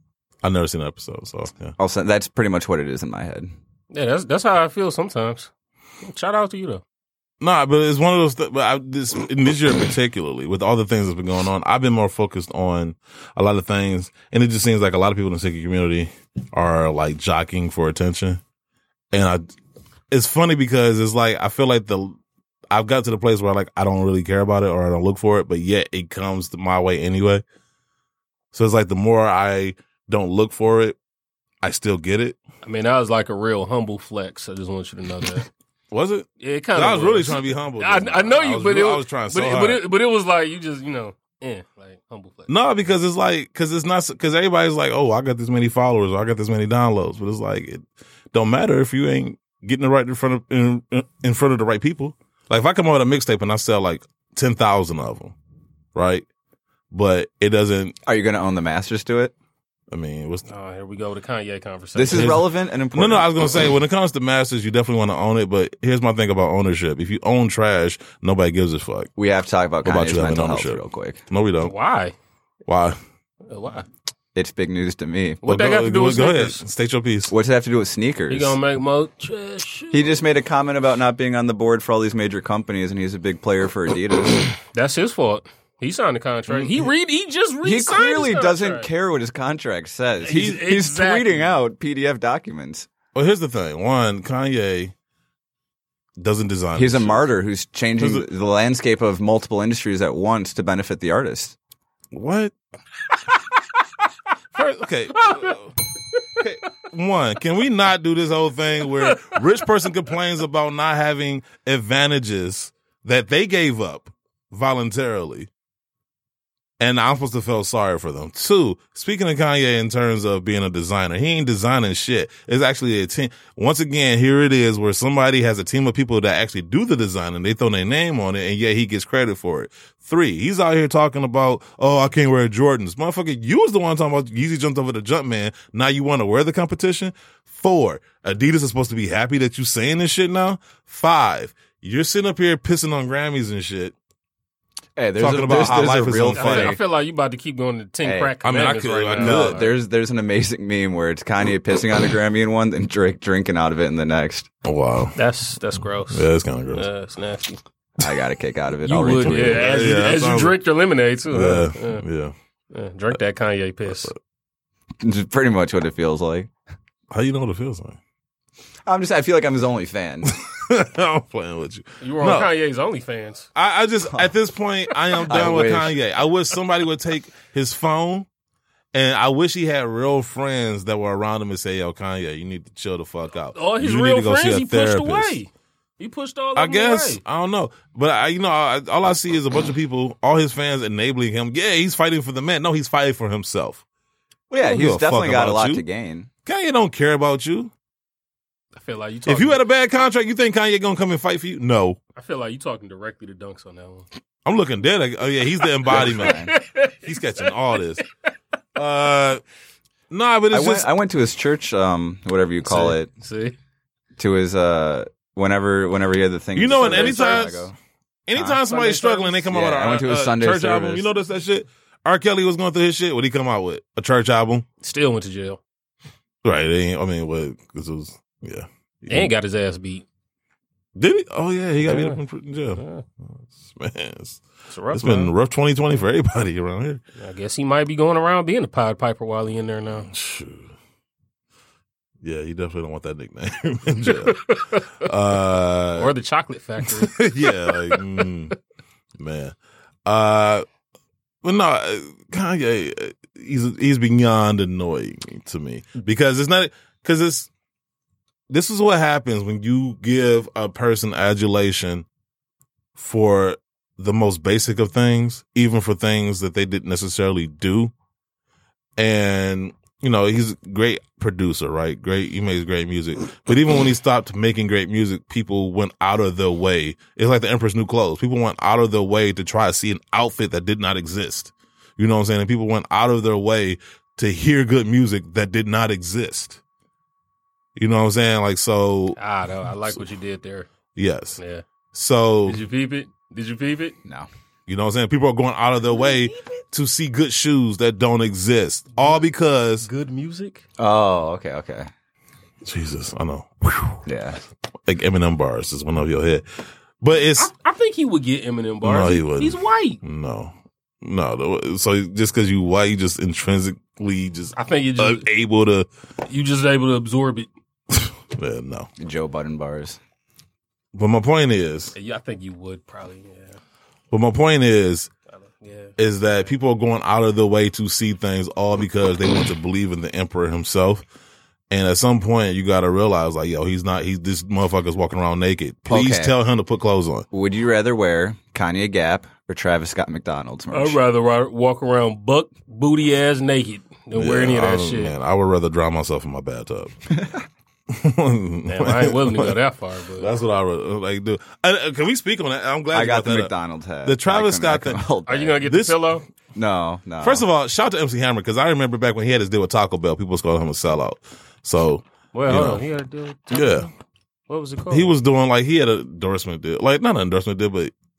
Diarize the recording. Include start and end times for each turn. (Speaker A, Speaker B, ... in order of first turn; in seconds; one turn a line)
Speaker A: 0.4-1.7
Speaker B: 1.8-3.5
Speaker C: 3.9-5.5
Speaker C: 6.0-6.8
Speaker A: 7.4-18.4
Speaker A: 19.1-19.4
Speaker A: 20.1-22.2
Speaker A: 22.7-27.4
Speaker A: 28.5-31.0
Speaker A: 31.6-32.4
Speaker C: 32.6-35.5
Speaker A: 35.9-39.8
Speaker C: 36.4-42.5
Speaker A: 42.5-55.3
Speaker A: 55.9-56.3
Speaker A: 56.9-58.0
Speaker B: 58.0-59.3
Speaker A: 59.9-60.5
Speaker C: 60.5-62.4
Speaker B: 61.9-63.4
Speaker A: 62.1-69.1
Speaker B: 69.2-71.2
Speaker A: 69.8-71.7
Speaker C: 71.6-72.1
Speaker A: 72.7-73.0
Speaker C: 73.5-73.8
Speaker B: 74.3-75.4
Speaker C: 75.4-76.6
Speaker A: 75.4-77.3
Speaker B: 77.3-78.6
Speaker C: 78.3-80.2
Speaker B: 79.9-84.5
Speaker C: 84.7-88.9
Speaker A: 86.5-86.9
Speaker B: 87.6-92.9
Speaker C: 90.2-91.5
Speaker A: 93.1-94.9
Speaker A: 96.2-97.3
Speaker B: 96.7-101.5
Speaker A: 98.0-98.3
Speaker A: 102.1-102.5
Speaker A: 104.5-105.8
Speaker C: 105.2-105.5
Speaker A: 106.4-115.5
Speaker C: 109.0-109.4
Speaker A: 116.8-143.9
Speaker B: 144.9-146.8
Speaker A: 145.2-146.8
Speaker C: 146.3-149.7
Speaker B: 148.0-148.3
Speaker A: 148.4-149.7
Speaker B: 149.2-154.5
Speaker A: 154.6-155.2
Speaker C: 155.2-157.6
Speaker A: 156.1-156.9
Speaker B: 158.0-159.7
Speaker C: 158.8-162.0
Speaker A: 159.2-160.6
Speaker A: 161.3-162.3
Speaker C: 162.7-164.1
Speaker A: 163.8-164.2
Speaker B: 165.0-166.5
Speaker A: 167.1-168.0
Speaker B: 168.8-170.3
Speaker A: 170.2-172.5
Speaker C: 172.0-173.5
Speaker A: 173.6-178.3
Speaker B: 175.2-175.9
Speaker A: 178.9-185.4
Speaker C: 183.5-187.2
Speaker A: 186.6-193.8
Speaker B: 194.5-196.3
Speaker A: 194.6-195.8
Speaker A: 196.4-197.7
Speaker C: 198.7-199.6
Speaker A: 199.3-202.0
Speaker C: 202.2-204.1
Speaker A: 204.4-206.5
Speaker C: 205.8-207.5
Speaker B: 205.9-206.5
Speaker A: 207.0-208.0
Speaker A: 208.8-209.4
Speaker A: 210.1-210.9
Speaker B: 210.5-213.1
Speaker C: 212.6-213.5
Speaker B: 214.2-217.8
Speaker A: 216.5-217.7
Speaker C: 216.7-217.5
Speaker A: 218.3-224.7
Speaker B: 218.3-218.6
Speaker C: 218.6-219.5
Speaker B: 219.5-221.1
Speaker C: 224.8-225.6
Speaker A: 226.4-229.3
Speaker C: 229.1-230.0
Speaker A: 230.9-232.8
Speaker C: 231.8-232.2
Speaker C: 232.8-233.0
Speaker A: 233.3-237.0
Speaker C: 234.7-235.3
Speaker C: 237.2-240.1
Speaker A: 240.0-240.7
Speaker A: 242.2-244.4
Speaker C: 244.1-244.9
Speaker A: 245.0-246.1
Speaker C: 245.9-248.0
Speaker A: 246.8-248.5
Speaker A: 249.2-250.7
Speaker A: 251.4-257.5
Speaker A: 258.5-262.1
Speaker A: 262.9-267.9
Speaker A: 269.0-286.6
Speaker A: 287.8-289.2
Speaker C: 289.2-290.7
Speaker A: 290.9-291.4
Speaker C: 291.4-291.6
Speaker A: 291.9-292.6
Speaker C: 292.4-294.0
Speaker A: 294.7-299.9
Speaker C: 295.9-296.6
Speaker C: 299.0-299.2
Speaker C: 299.8-300.6
Speaker B: 300.8-301.9
Speaker A: 302.6-304.0
Speaker B: 304.0-304.4
Speaker A: 304.9-306.4
Speaker A: 307.0-307.5
Speaker C: 307.4-310.0
Speaker A: 308.8-315.9
Speaker C: 314.5-315.2
Speaker C: 316.3-317.5
Speaker A: 317.9-318.9
Speaker B: 319.0-320.0
Speaker A: 320.9-321.9
Speaker C: 321.9-323.6
Speaker A: 324.1-325.1
Speaker C: 325.3-326.0
Speaker A: 326.0-331.0
Speaker A: 331.7-337.2
Speaker B: 335.9-336.3
Speaker B: 337.3-341.0
Speaker C: 340.7-345.1
Speaker A: 344.1-346.9
Speaker B: 347.1-347.4
Speaker A: 347.9-349.6
Speaker C: 348.7-350.3
Speaker A: 350.2-353.5
Speaker B: 352.9-355.6
Speaker A: 354.0-355.0
Speaker C: 355.2-356.2
Speaker A: 355.6-356.1
Speaker B: 356.5-357.4
Speaker A: 357.2-362.8
Speaker C: 362.3-363.9
Speaker A: 363.5-363.9
Speaker C: 364.5-365.1
Speaker A: 364.9-367.9